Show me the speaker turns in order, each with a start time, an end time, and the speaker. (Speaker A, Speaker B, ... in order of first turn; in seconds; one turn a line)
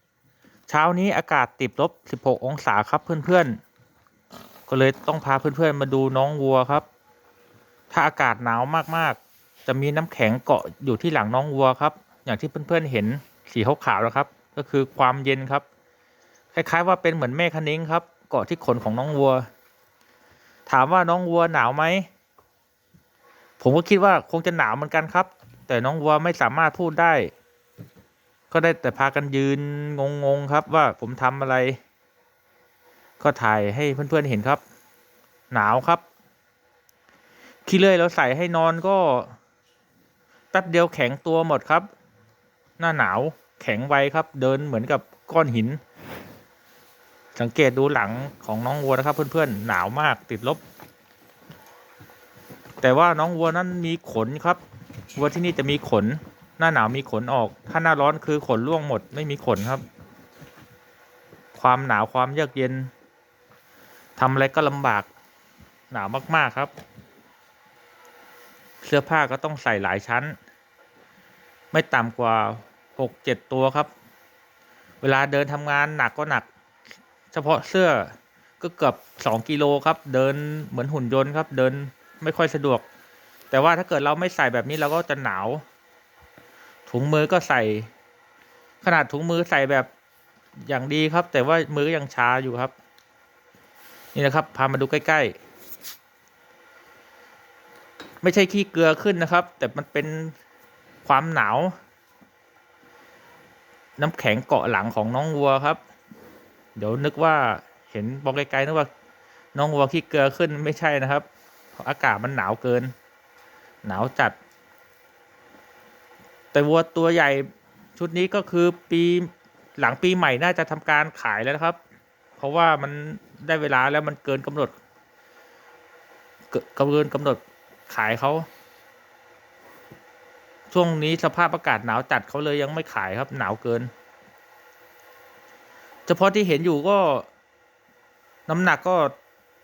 Speaker A: 0.7-3.6
Speaker A: 4.7-6.8
Speaker A: 7.9-15.6
Speaker A: 16.5-19.4
Speaker A: 20.7-22.1
Speaker A: 23.6-27.3
Speaker A: 28.5-31.8
Speaker A: 33.2-34.6
Speaker A: 35.5-36.0
Speaker A: 37.6-39.3
Speaker A: 40.5-41.9
Speaker A: 42.8-45.8
Speaker A: 47.4-50.6
Speaker A: 52.8-54.6
Speaker A: 55.1-59.8
Speaker A: 61.5-62.9
Speaker A: 64.2-65.1
Speaker A: 65.9-66.7
Speaker A: 68.8-70.3
Speaker A: 71.7-73.9
Speaker A: 75.0-76.5
Speaker A: 77.3-82.8
Speaker A: 83.5-85.6
Speaker A: 86.9-87.9
Speaker A: 88.8-89.9
Speaker A: 90.6-92.7
Speaker A: 94.1-95.3
Speaker A: 98.2-100.3
Speaker A: 101.0-101.7
Speaker A: 104.0-105.8
Speaker A: 106.8-108.9
Speaker A: 109.5-111.2
Speaker A: 111.8-112.9
Speaker A: 113.8-114.3
Speaker A: 116.5-121.8
Speaker A: 122.4-124.7
Speaker A: 126.5-128.5
Speaker A: 130.7-133.9
Speaker A: 136.1-137.3
Speaker A: 138.5-139.1